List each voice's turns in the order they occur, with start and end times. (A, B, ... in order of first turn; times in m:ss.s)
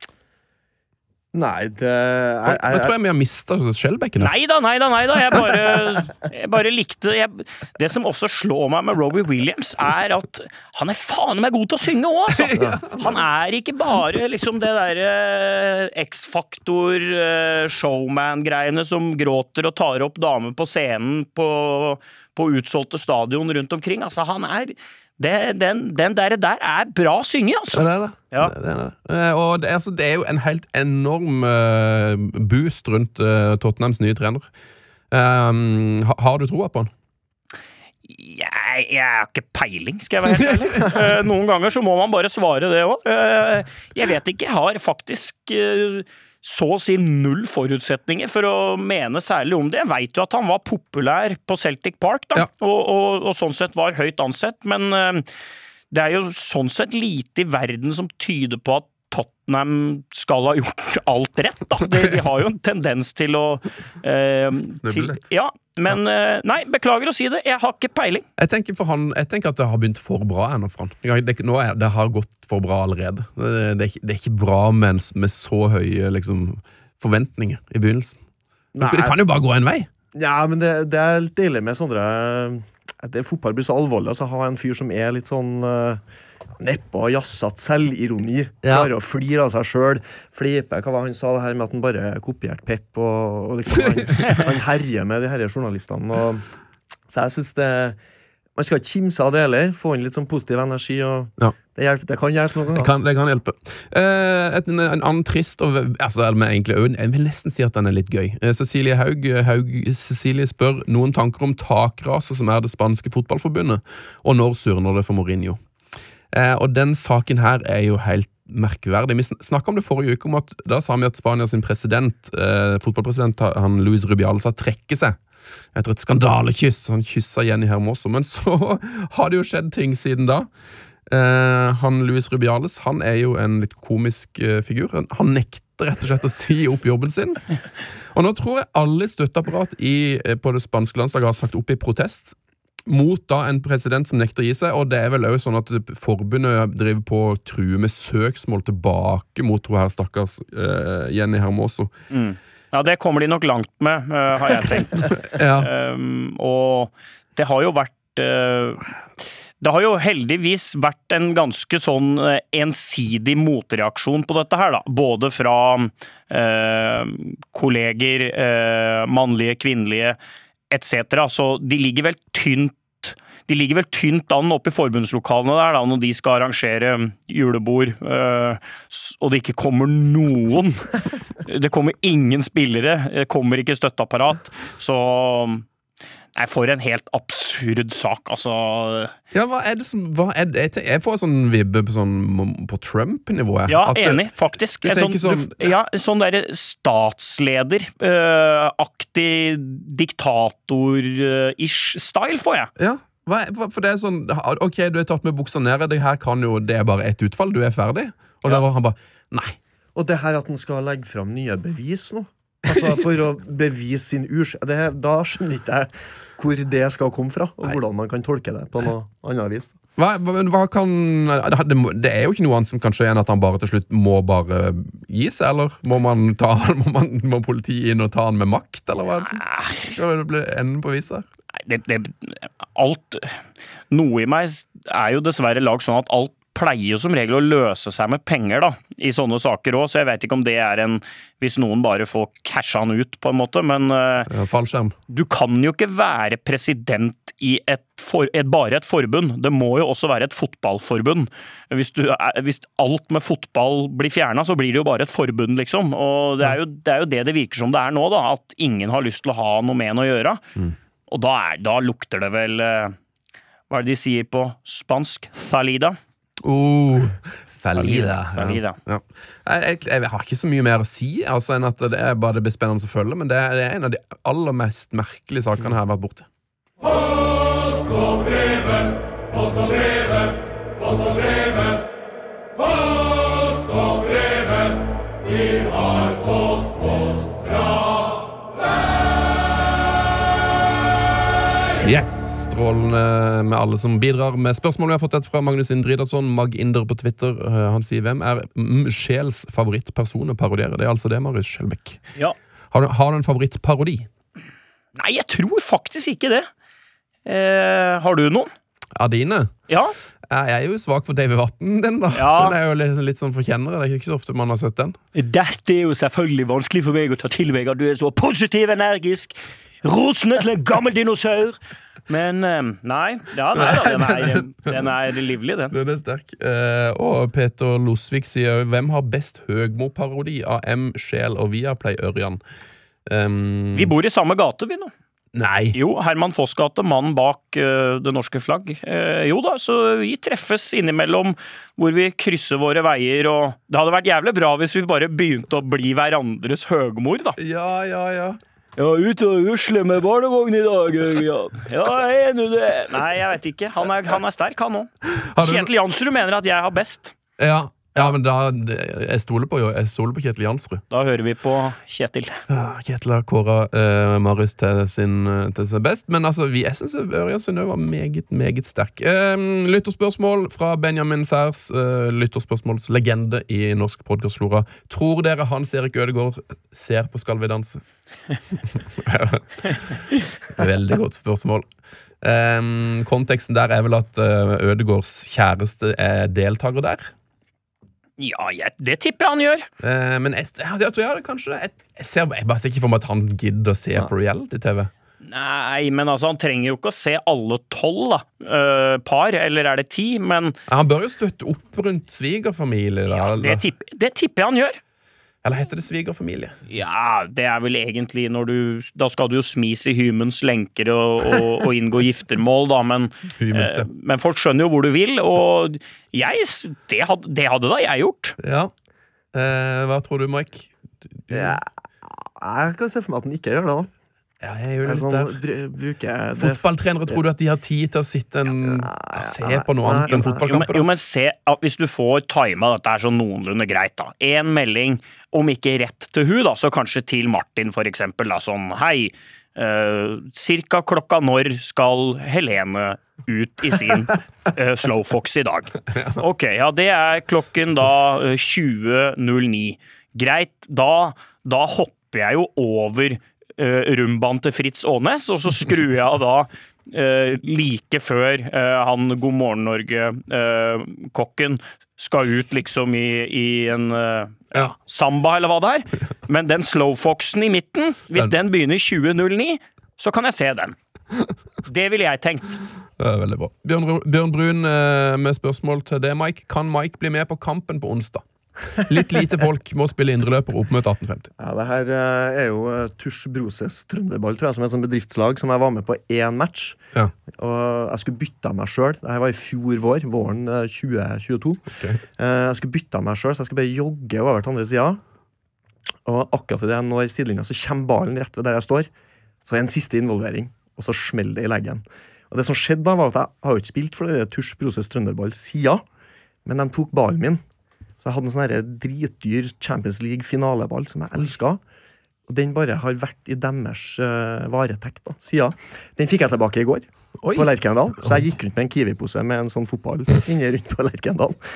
0:01.3-0:02.9 A
0:02.4-0:04.3 B
0:04.2-0:28.5 C
0:12.3-0:13.3 B
0:27.7-0:34.5 B
0:35.1-0:36.9 B
0:38.0-0:55.3 C
0:40.2-0:41.1 B
0:55.9-1:08.3 C
1:01.8-1:02.2 B
1:04.6-1:05.2 B
1:08.4-1:18.2 B
1:18.8-1:19.2 A
1:18.8-1:19.9 B
1:20.1-1:26.0 A
1:26.6-1:36.4 A
1:28.6-1:28.9 B
1:37.1-1:38.0 A
1:38.6-1:42.9 A
1:42.7-1:55.6 B
1:56.3-2:05.2 B
2:05.8-2:10.5 B
2:11.1-2:17.5 B
2:18.1-2:31.9 B
2:32.1-2:50.2 C
2:35.1-2:35.7 B
2:50.7-3:05.7 C
3:06.4-3:09.2 C
3:09.3-3:15.7 B
3:13.7-3:22.7 C
3:22.8-3:29.6 B
3:30.0-3:39.8 A
3:32.7-3:33.0 B
3:40.0-3:51.3 B
3:49.2-3:49.9 C
3:51.6-3:53.4 C
3:53.9-4:04.3 C
4:04.3-4:05.0 B
4:05.1-4:20.4 C
4:21.1-4:23.0 C
4:23.7-4:26.0 C
4:26.4-4:36.3 B
4:27.8-4:28.8 C
4:51.8-5:02.1 B
5:02.7-5:04.1 B
5:05.0-5:06.5 C
5:07.3-5:08.5 C
5:09.0-5:09.5 B
5:09.7-5:10.0 C
5:10.3-5:15.0 B
5:12.1-5:12.6 C
5:15.2-5:25.7 C
5:23.6-5:24.9 B
5:25.7-5:32.4 B
5:33.1-5:33.9 B
5:33.7-5:34.9 C
5:35.3-5:35.8 B
5:35.7-5:47.4 C
5:47.4-5:48.4 B
5:48.8-5:57.2 C
5:55.1-5:55.7 B
5:57.4-6:00.8 B
6:00.9-6:02.4 C
6:02.5-6:17.8 B
6:18.5-6:20.0 B
6:20.6-6:21.7 B
6:22.2-6:27.1 B
6:28.2-6:29.7 C
6:29.8-6:34.9 B
6:35.2-6:40.6 C
6:40.7-6:43.6 B
6:43.3-6:44.8 C
6:45.4-6:46.6 B
6:46.7-6:58.4 C
6:53.4-6:53.9 B
6:58.4-6:58.7 B
6:59.3-7:01.6 B
7:01.3-7:03.9 A
7:04.4-7:05.4 B
7:04.8-7:07.2 A
7:06.4-7:10.8 B
7:08.6-7:10.5 A
7:10.4-7:50.8 C
7:26.0-7:26.2 B
7:51.7-7:52.6 C
7:53.0-8:01.3 B
8:01.4-8:06.8 A
8:07.4-8:11.6 A
8:11.8-8:12.0 B
8:12.2-8:15.0 A
8:16.1-8:18.9 A
8:19.4-8:25.8 A
8:26.5-8:27.4 A
8:28.0-8:31.6 A
8:32.3-8:41.4 A
8:37.2-8:38.3 B